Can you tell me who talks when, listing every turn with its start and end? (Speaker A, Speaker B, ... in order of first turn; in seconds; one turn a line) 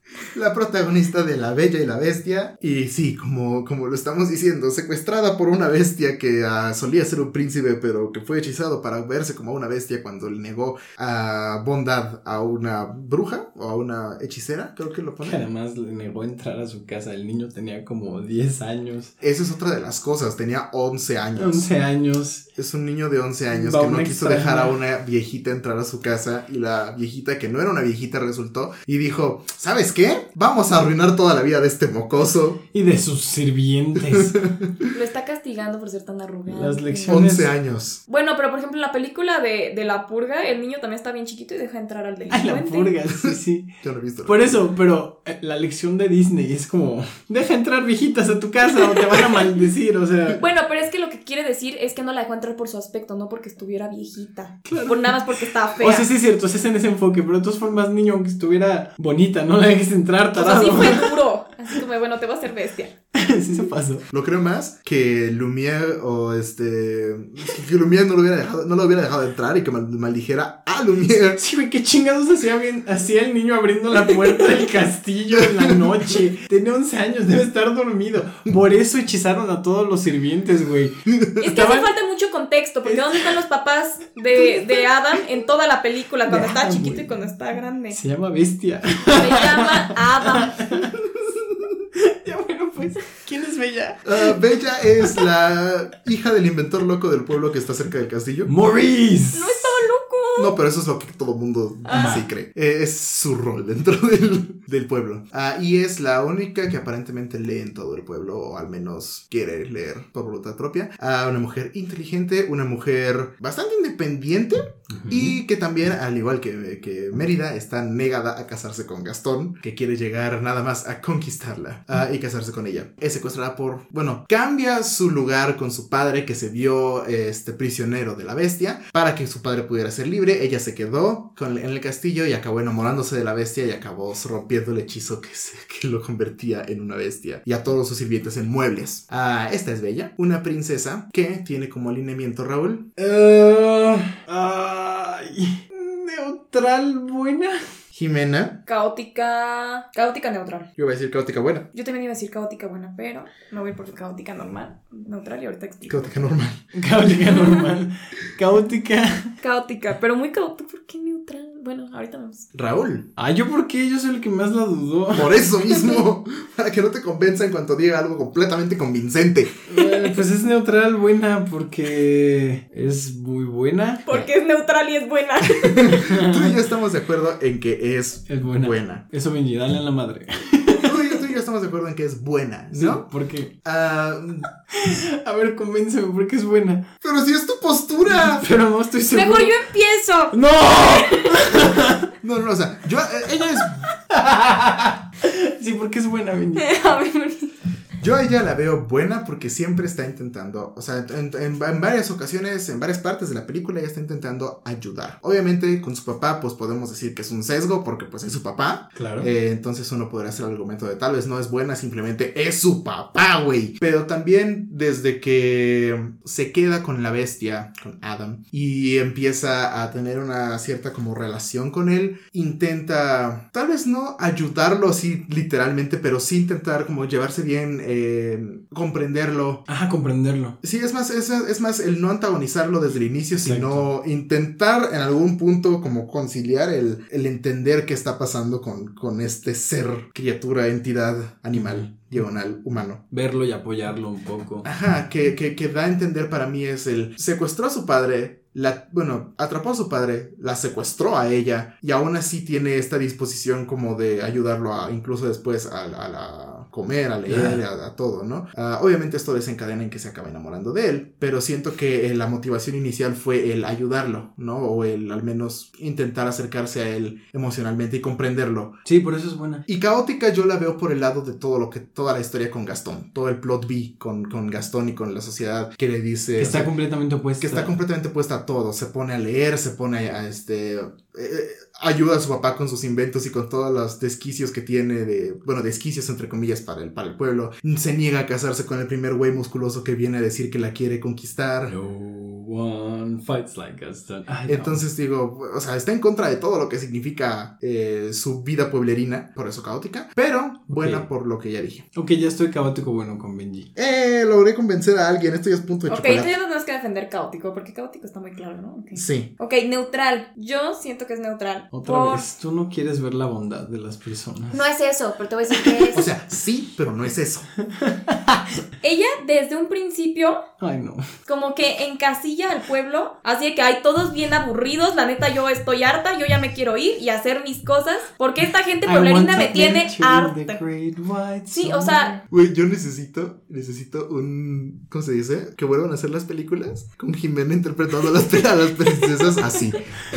Speaker A: 0.3-15.4
Speaker B: 15.2-19.1
Speaker A: 19.2-21.7
Speaker B: 21.4-22.5
Speaker A: 22.6-32.6
Speaker B: 23.5-24.8
Speaker B: 32.7-34.4
Speaker A: 34.0-34.9
Speaker C: 34.9-37.2
Speaker B: 36.5-37.5
Speaker A: 37.1-38.0
Speaker C: 38.1-42.9
Speaker B: 42.3-43.7
Speaker A: 43.2-44.6
Speaker B: 44.2-50.4
Speaker C: 48.8-49.6
Speaker C: 50.4-56.1
Speaker B: 54.7-55.1
Speaker B: 55.8-61.1
Speaker C: 60.3-62.9
Speaker B: 63.1-64.0
Speaker A: 64.1-71.4
Speaker B: 71.4-81.9
Speaker A: 75.6-75.9
Speaker C: 81.4-88.0
Speaker B: 82.8-83.4
Speaker B: 84.3-84.8
Speaker B: 86.3-87.1
Speaker B: 87.9-91.0
Speaker C: 89.1-90.8
Speaker B: 92.0-94.3
Speaker A: 94.0-98.5
Speaker B: 98.5-99.8
Speaker C: 99.3-100.5
Speaker A: 100.4-142.8
Speaker C: 101.9-102.2
Speaker B: 101.9-102.2
Speaker B: 114.9-115.3
Speaker B: 143.0-147.6
Speaker A: 147.9-148.6
Speaker C: 148.7-150.7
Speaker A: 150.8-151.7
Speaker C: 151.7-156.1
Speaker A: 155.9-156.6
Speaker B: 156.7-159.3
Speaker C: 157.3-157.6
Speaker C: 159.4-162.5
Speaker A: 162.5-163.1
Speaker B: 163.2-165.4
Speaker A: 165.1-169.6
Speaker C: 165.8-166.0
Speaker B: 169.7-174.3
Speaker C: 174.1-176.0
Speaker A: 175.5-179.0
Speaker B: 176.0-176.5
Speaker B: 178.3-180.9
Speaker A: 180.8-183.1
Speaker B: 182.7-183.5
Speaker A: 183.6-184.5
Speaker B: 184.7-186.9
Speaker A: 187.0-188.4
Speaker B: 188.1-189.5
Speaker C: 189.1-191.3
Speaker B: 190.3-192.1
Speaker A: 192.2-193.9
Speaker B: 194.1-196.7
Speaker C: 196.6-197.5
Speaker A: 198.0-229.6
Speaker B: 208.9-209.3
Speaker B: 229.7-230.6
Speaker A: 230.6-243.0
Speaker B: 233.4-233.8
Speaker B: 241.6-241.9
Speaker B: 243.1-244.7
Speaker A: 244.6-268.8
Speaker B: 257.3-257.6
Speaker B: 268.8-269.6
Speaker A: 269.7-276.7
Speaker B: 276.4-277.8
Speaker A: 277.4-291.7
Speaker B: 291.7-294.8
Speaker A: 294.5-301.8
Speaker B: 300.7-301.1
Speaker B: 301.9-303.7
Speaker A: 303.8-306.3
Speaker C: 305.9-312.2
Speaker A: 308.9-309.3
Speaker B: 311.7-314.6
Speaker C: 314.5-316.1
Speaker B: 315.5-315.9
Speaker A: 315.9-317.5
Speaker B: 317.6-318.6
Speaker C: 318.8-320.4
Speaker B: 320.6-321.1
Speaker C: 321.2-330.6
Speaker B: 328.8-332.2
Speaker C: 331.5-332.2
Speaker A: 332.3-339.8